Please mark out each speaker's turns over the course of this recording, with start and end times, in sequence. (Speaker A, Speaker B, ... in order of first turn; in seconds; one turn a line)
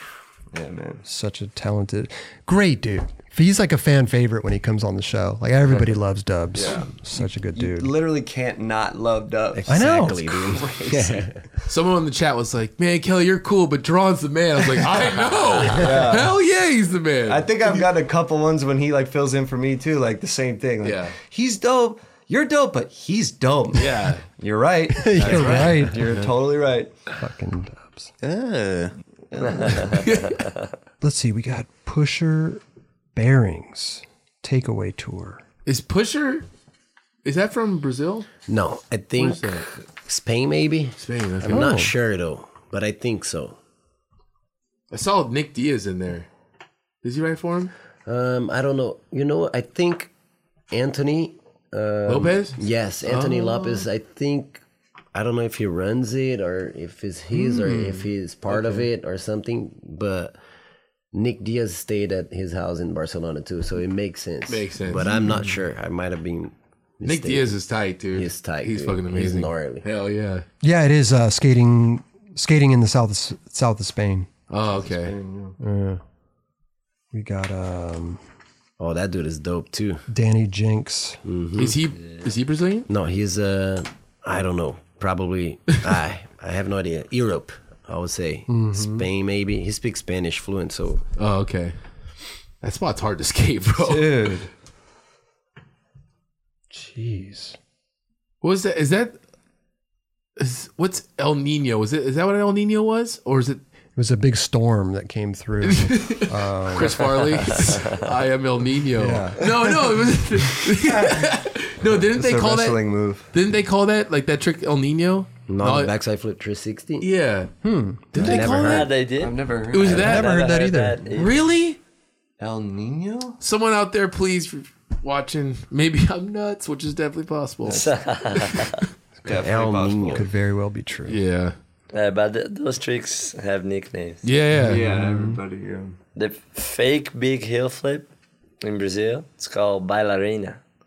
Speaker A: 0.5-1.0
Speaker B: 1.1-7.9
Speaker A: 6.6-6.9
Speaker A: 7.5-11.2
Speaker C: 9.5-11.4
Speaker B: 9.7-10.2
Speaker D: 11.7-17.5
Speaker A: 15.6-16.3
Speaker A: 17.3-26.9
Speaker D: 20.8-21.2
Speaker D: 23.7-24.2
Speaker B: 24.9-26.0
Speaker D: 25.3-26.3
Speaker B: 27.2-28.1
Speaker A: 28.2-30.1
Speaker D: 29.9-30.4
Speaker B: 31.0-32.6
Speaker B: 33.1-35.4
Speaker D: 35.7-36.5
Speaker D: 37.2-38.3
Speaker C: 38.5-43.6
Speaker D: 39.2-39.7
Speaker D: 41.0-41.8
Speaker B: 41.5-41.9
Speaker D: 44.9-46.3
Speaker D: 47.0-47.7
Speaker C: 48.1-50.1
Speaker C: 50.7-54.6
Speaker D: 52.1-53.9
Speaker C: 55.1-60.4
Speaker B: 57.4-57.9
Speaker D: 57.6-58.0
Speaker D: 58.5-58.9
Speaker C: 61.1-67.6
Speaker D: 64.5-65.1
Speaker D: 67.0-70.5
Speaker C: 68.2-69.9
Speaker B: 70.6-74.3
Speaker D: 74.5-75.2
Speaker A: 74.8-75.6
Speaker B: 75.6-76.0
Speaker B: 77.1-78.2
Speaker C: 78.8-80.0
Speaker B: 80.1-81.2
Speaker C: 81.2-81.8
Speaker D: 81.6-82.9
Speaker C: 82.9-91.0
Speaker B: 88.5-89.0
Speaker D: 91.2-91.8
Speaker D: 92.6-94.3
Speaker A: 93.8-94.5
Speaker B: 96.7-97.6
Speaker D: 98.4-99.2
Speaker D: 100.4-103.6
Speaker B: 104.0-107.8
Speaker D: 105.6-112.8
Speaker B: 109.0-109.5
Speaker A: 112.0-113.3
Speaker D: 113.3-115.9
Speaker C: 115.5-117.1
Speaker D: 117.0-117.5
Speaker B: 117.6-118.4
Speaker D: 118.1-118.9
Speaker C: 118.2-118.9
Speaker E: 118.2-121.3
Speaker A: 119.2-120.2
Speaker D: 119.7-120.3
Speaker B: 119.9-121.0
Speaker D: 121.2-121.8
Speaker A: 122.4-123.4
Speaker D: 123.4-127.9
Speaker E: 127.7-128.8
Speaker D: 128.5-128.8
Speaker A: 129.2-130.2
Speaker C: 129.3-130.2
Speaker B: 130.1-131.2
Speaker D: 131.1-131.6
Speaker E: 131.9-134.2
Speaker D: 134.2-134.8
Speaker A: 134.6-136.0
Speaker B: 134.6-135.4
Speaker E: 136.2-138.1
Speaker E: 138.6-140.6